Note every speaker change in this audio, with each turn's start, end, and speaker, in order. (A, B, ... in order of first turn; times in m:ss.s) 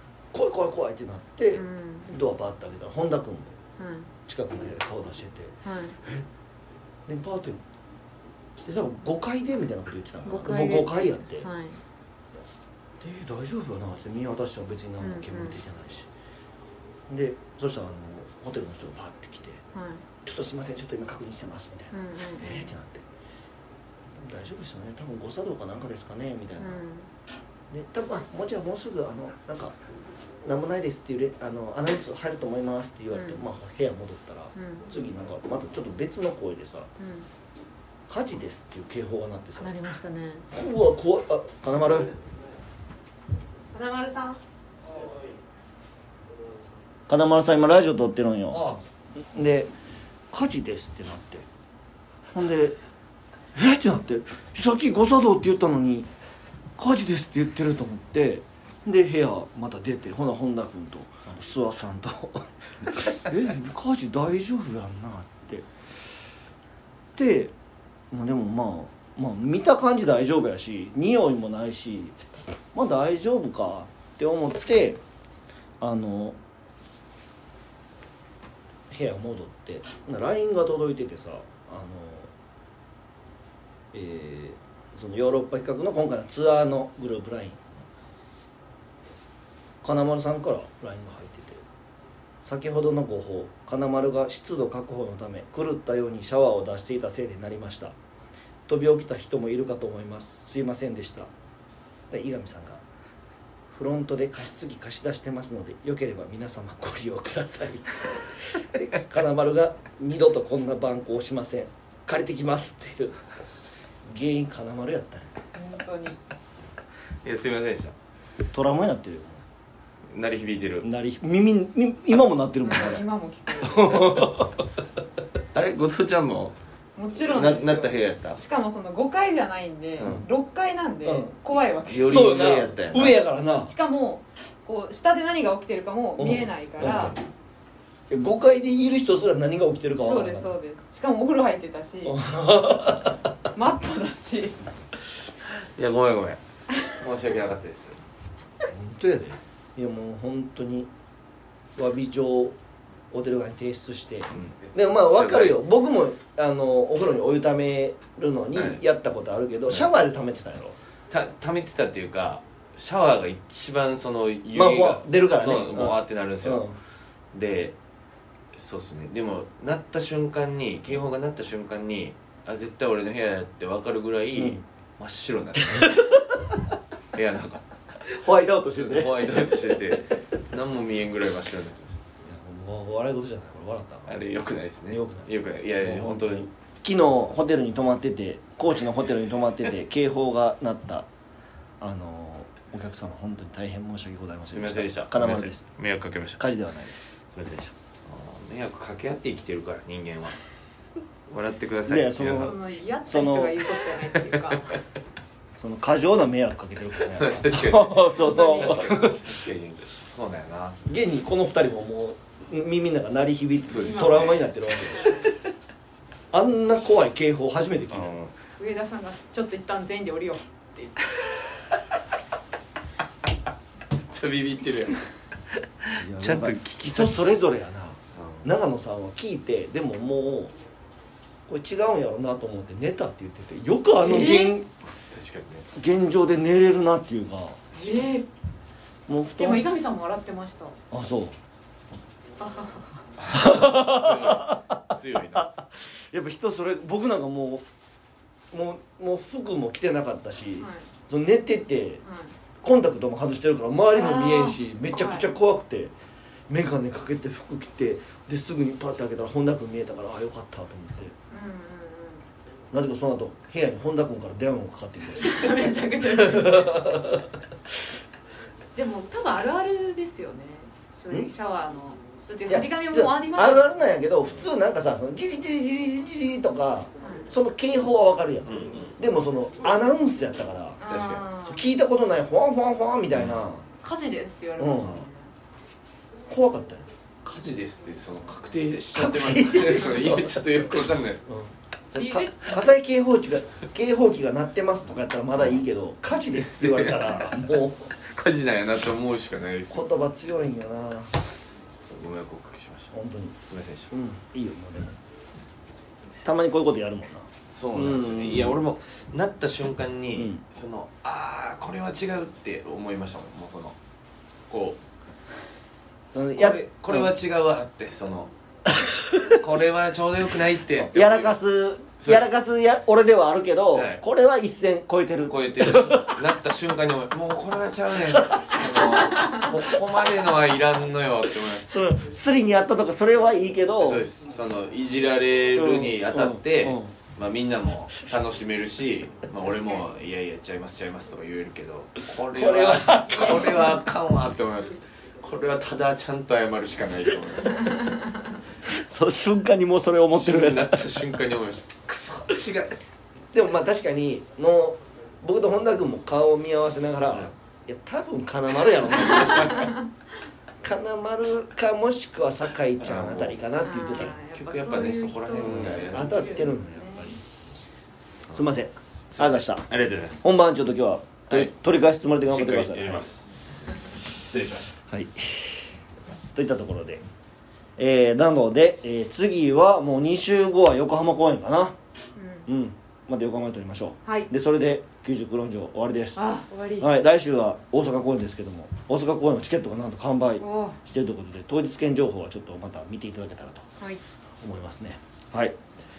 0:00.3-0:03.6 A
0:01.5-0:02.1 B
0:03.8-0:04.1 B
0:04.2-0:06.3 A
0:05.6-0:06.0 B
0:07.0-0:07.6 A
0:08.6-0:11.5 A
0:10.2-0:11.8 B
0:13.0-0:16.1 A
0:15.0-0:15.6 B
0:17.1-0:19.6 A
0:19.7-0:20.0 B
0:20.2-0:23.0 A
0:21.9-0:22.7 B
0:24.1-0:26.8 A
0:26.6-0:27.1 B
0:27.7-0:29.8 A
0:30.4-0:36.9 A
0:33.1-0:33.4 B
0:34.5-0:34.9 B
0:37.0-0:37.3 B
0:38.1-0:39.7 A
0:39.6-0:40.5 B
0:40.5-0:42.1 A
0:43.7-0:44.4 B
0:47.1-0:49.7 A
0:50.3-0:51.5 A
0:52.3-0:52.8 A
0:53.5-0:56.1 A
0:56.8-1:05.7 A
1:07.1-1:07.5 A
1:08.1-1:12.2 A
1:12.7-1:15.0 A
1:15.8-1:16.4 A
1:18.9-1:22.3 A
1:23.9-1:27.8 A
1:29.8-1:31.6 A
1:32.4-1:37.9 A
1:38.7-1:41.3 A
1:42.1-1:42.8 A
1:43.7-1:53.2 A
1:54.0-1:55.3 A
1:55.5-1:56.2 B
1:57.2-1:57.9 C
1:58.5-1:59.4 A
2:00.1-2:00.9 C
2:00.8-2:03.0 A
2:02.6-2:04.3 B
2:03.6-2:04.5 A
2:05.5-2:06.5 C
2:07.0-2:12.3 B
2:07.2-2:08.4 C
2:10.0-2:10.3 A
2:11.0-2:11.3 A
2:11.9-2:13.2 C
2:12.0-2:13.7 A
2:13.7-2:17.2 B
2:16.2-2:17.2 A
2:16.8-2:17.1 C
2:18.1-2:20.6 A
2:20.0-2:22.2 B
2:22.0-2:23.2 A
2:23.5-2:24.6 B
2:25.6-2:28.0 C
2:28.7-2:30.9 A
2:31.8-2:32.6 A
2:33.1-2:40.8 A
2:34.4-2:35.6 C
2:38.5-2:38.8 C
2:41.1-2:46.6 C
2:44.5-2:46.8 A
2:47.3-2:47.7 C
2:48.5-2:56.2 C
2:54.3-2:54.6 A
2:55.7-2:56.0 A
2:57.1-2:57.6 C
2:58.1-2:59.8 A
2:58.7-3:01.9 C
3:02.2-3:04.2 A
3:04.1-3:06.5 C
3:04.9-3:11.1 A
3:11.8-3:15.7 A
3:14.5-3:16.4 C
3:16.4-3:17.6 A
3:17.3-3:20.4 C
3:21.3-3:22.6 C
3:21.8-3:23.7 A
3:22.3-3:24.8 B
3:24.1-3:24.6 C
3:25.6-3:29.4 A
3:27.1-3:30.8 C
3:28.2-3:29.0 B
3:30.8-3:35.3 A
3:33.6-3:34.4 C
3:33.7-3:34.4 B
3:36.3-3:38.1 A
3:37.9-3:38.3 C
3:38.6-3:41.3 B
3:44.1-3:45.0 C
3:45.8-3:47.2 C
3:46.0-3:50.5 A
3:48.2-3:48.5 C
3:51.5-3:54.7 A
3:54.0-3:54.6 B
3:55.1-3:55.7 C
3:55.7-3:58.1 A
3:57.7-3:58.3 B
3:59.1-3:59.7 A
3:59.4-4:00.8 B
4:00.9-4:01.4 A
4:02.4-4:03.0 B
4:03.2-4:05.5 C
4:03.3-4:07.6 A
4:08.5-4:12.0 A
4:10.6-4:10.9 B
4:12.0-4:12.3 B
4:12.6-4:15.9 A
4:13.9-4:15.3 B
4:16.5-4:21.1 A
4:21.3-4:22.2 B
4:22.7-4:27.3 A
4:25.2-4:27.0 B
4:28.7-4:33.7 B
4:32.5-4:40.8 A
4:38.5-4:38.9 C
4:40.8-4:41.6 B
4:40.9-4:41.2 C
4:41.4-4:43.6 A
4:43.8-4:45.3 B
4:44.6-4:45.0 A
4:46.3-4:46.9 A
4:47.2-4:51.2 C
4:48.9-4:57.9 A
4:52.0-4:52.5 B
4:56.5-4:59.9 C
4:59.7-5:01.2 A
5:01.7-5:02.9 C
5:02.9-5:03.4 A
5:03.5-5:03.9 C
5:03.9-5:05.0 A
5:06.2-5:08.6 A
5:07.5-5:13.8 C
5:10.1-5:10.4 A
5:14.5-5:14.8 C
5:16.1-5:17.1 A
5:16.3-5:18.3 C
5:18.7-5:19.4 A
5:19.2-5:21.4 C
5:20.8-5:26.2 A
5:22.0-5:22.3 C
5:23.7-5:24.0 C
5:25.3-5:31.8 C
5:28.1-5:30.2 A
5:31.5-5:34.1 A
5:33.8-5:47.7 C
5:35.5-5:36.9 A
5:39.5-5:39.8 B
5:42.3-5:43.7 A
5:48.6-5:51.0 A
5:50.1-5:52.8 C
5:53.3-5:59.7 A
5:58.9-5:59.7 C
5:59.3-5:59.8 B
6:00.6-6:04.2 A
6:02.8-6:03.3 C
6:03.6-6:07.2 B
6:03.9-6:06.5 C
6:05.4-6:07.2 A
6:08.3-6:09.7 A
6:09.1-6:10.2 C
6:10.2-6:13.1 A
6:12.3-6:13.3 C
6:14.1-6:14.7 C
6:14.9-6:15.7 A
6:16.3-6:17.0 A
6:17.8-6:21.8 A
6:22.2-6:22.4 B
6:22.5-6:26.2 A
6:26.2-6:26.9 B
6:26.8-6:33.7 A
6:30.4-6:30.8 B
6:34.4-6:35.6 A